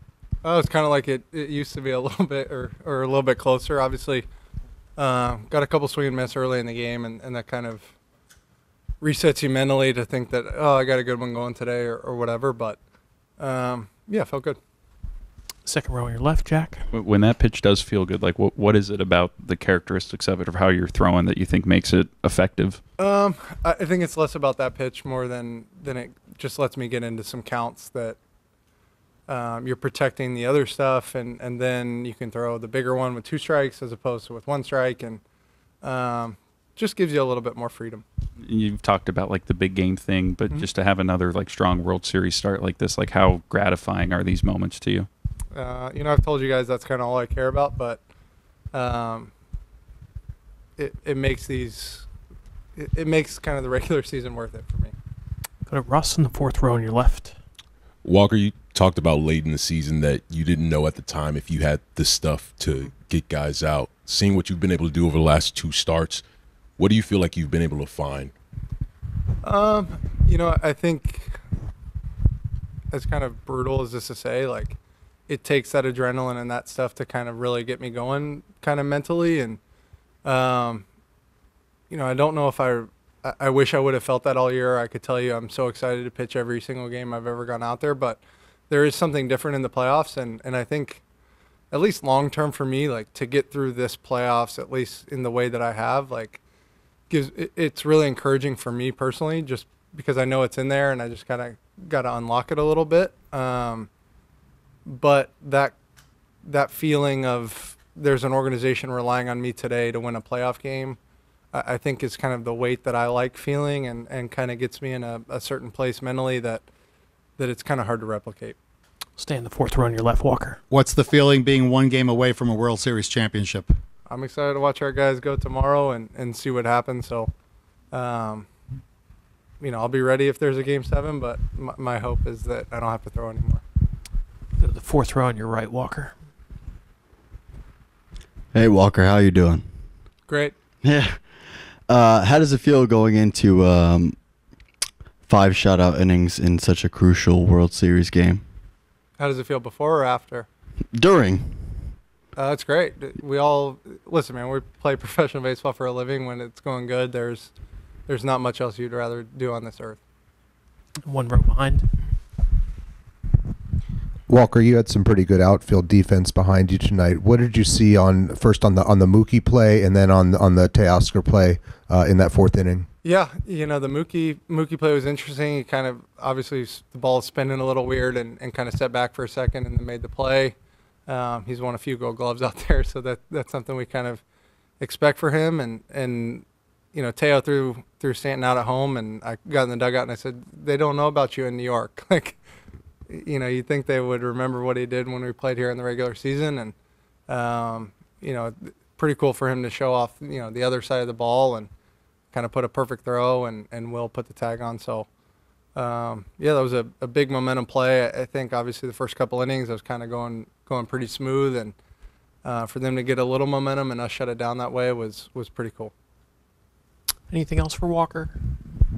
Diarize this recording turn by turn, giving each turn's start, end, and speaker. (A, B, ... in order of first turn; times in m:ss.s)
0:00.4-0:04.3 A
0:05.0-0:07.9 A
0:09.0-0:12.8 A
0:13.4-0:14.6 A
0:15.6-0:16.9 B
0:16.9-0:22.8 C
0:23.0-0:28.2 A
0:29.3-0:35.2 A
0:35.8-0:38.0 A
0:38.4-0:45.1 C
0:45.5-0:48.0 A
0:48.7-0:49.3 A
0:50.8-0:52.1 A
0:52.8-0:55.0 A
0:55.7-0:57.3 B
0:58.0-1:06.2 D
1:06.8-1:08.3 D
1:09.4-1:11.4 A
1:12.9-1:14.8 A
1:15.3-1:19.6 A
1:20.2-1:20.9 A
1:21.9-1:31.0 A
1:31.7-1:36.4 A
1:37.1-1:43.9 A
1:44.9-1:45.8 A
1:46.4-1:51.0 A
1:51.5-1:56.7 A
1:57.4-1:58.6 A
1:59.2-2:00.6 B
2:00.7-2:03.7 E
2:04.1-2:07.3 A
2:07.9-2:08.5 A
2:09.6-2:13.6 A
2:14.6-2:16.2 B
2:18.5-2:19.7 F
2:20.3-2:20.6 A
2:20.8-2:24.2 F
2:25.3-2:28.4 F
2:29.2-2:30.5 A
2:31.0-2:31.9 F
2:32.4-2:37.5 A
2:38.1-2:40.0 A
2:41.0-2:42.0 B
2:44.3-2:52.9 G
2:53.0-3:00.6 A
3:01.1-3:04.2 A
3:04.8-3:12.4 A
3:13.1-3:16.7 A
3:17.3-3:21.7 A
3:22.3-3:25.1 A
3:25.8-3:31.8 A
3:32.4-3:35.9 A
3:37.3-3:38.4 B